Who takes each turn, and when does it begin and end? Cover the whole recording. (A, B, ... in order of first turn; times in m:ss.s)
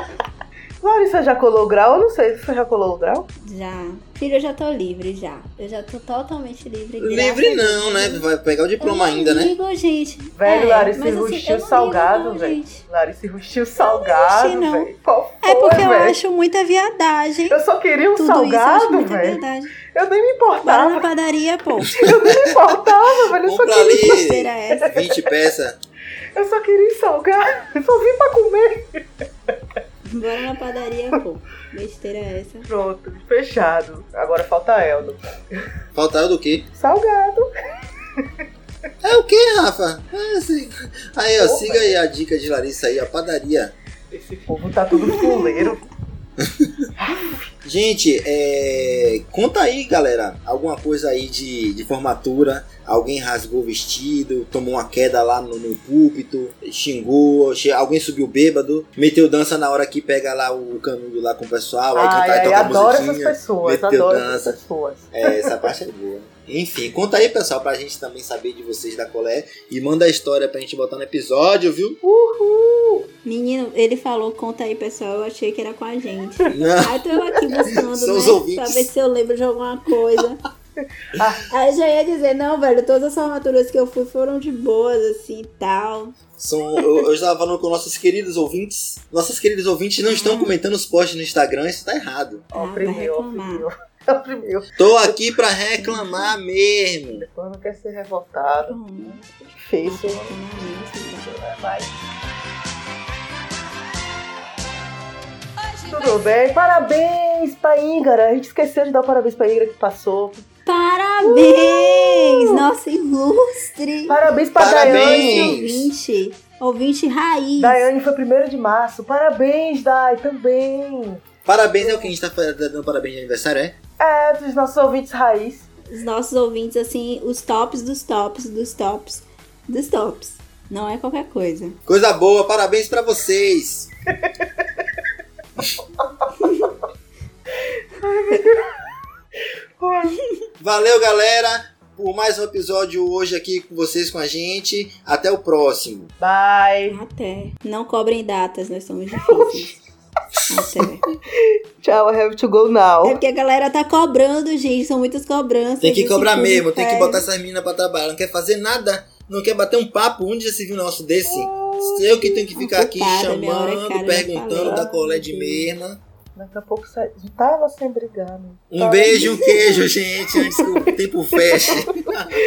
0:00.8-0:03.3 A
0:03.4-0:08.2 B
0:07.0-0:09.5 C
0:08.8-0:12.8 B
0:10.4-0:16.2 A
0:13.8-0:14.9 B
0:15.4-0:17.6 B
0:17.5-0:19.4 A
0:18.2-0:19.7 B
0:19.9-0:21.1 A
0:20.6-0:22.0 B
0:22.0-0:24.1 A
0:23.4-0:25.8 C
0:24.0-0:24.9 B
0:26.4-0:29.0 A
0:30.0-0:32.7 B
0:32.7-0:35.6 A
0:36.0-0:36.7 C
0:36.7-0:37.4 A
0:39.0-0:43.7 C
0:41.4-0:42.0 A
0:44.1-0:45.9 A
0:45.1-0:45.6 B
0:46.4-0:46.8 C
0:47.0-0:47.4 A
0:47.6-1:04.6 C
1:02.0-1:05.1 A
1:05.1-1:12.0 C
1:12.0-1:13.0 A
1:13.2-1:20.4 B
1:16.5-1:18.9 C
1:20.8-1:21.4 A
1:21.5-1:26.2 B
1:26.4-1:32.5 C
1:30.1-1:30.6 B
1:32.5-1:35.2 A
1:32.5-1:33.6 B
1:34.8-1:37.3 C
1:35.7-1:36.4 B
1:37.2-1:42.0 A
1:38.6-1:39.2 B
1:39.8-1:41.3 B
1:45.8-1:50.4 A
1:50.7-1:57.9 B
1:51.2-1:52.4 A
1:54.1-1:55.6 A
1:54.6-1:55.9 C
1:57.6-2:01.2 A
2:01.5-2:03.8 C
2:01.8-2:02.1 A
2:04.0-2:05.7 A
2:05.9-2:11.8 B
2:11.9-2:13.9 C
2:14.1-2:14.8 A
2:16.4-2:16.7 B
2:18.0-2:18.6 A
2:19.8-2:20.2 A
2:20.6-2:26.1 C
2:26.2-2:27.0 A
2:26.9-2:29.8 B
2:29.3-2:29.7 A
2:30.5-2:31.0 B
2:31.8-2:33.2 A
2:33.0-2:37.3 B
2:35.8-2:46.0 C
2:41.2-2:42.4 A
2:42.6-2:44.8 B
2:44.5-2:45.7 A
2:46.4-2:49.7 A
2:48.7-2:52.3 C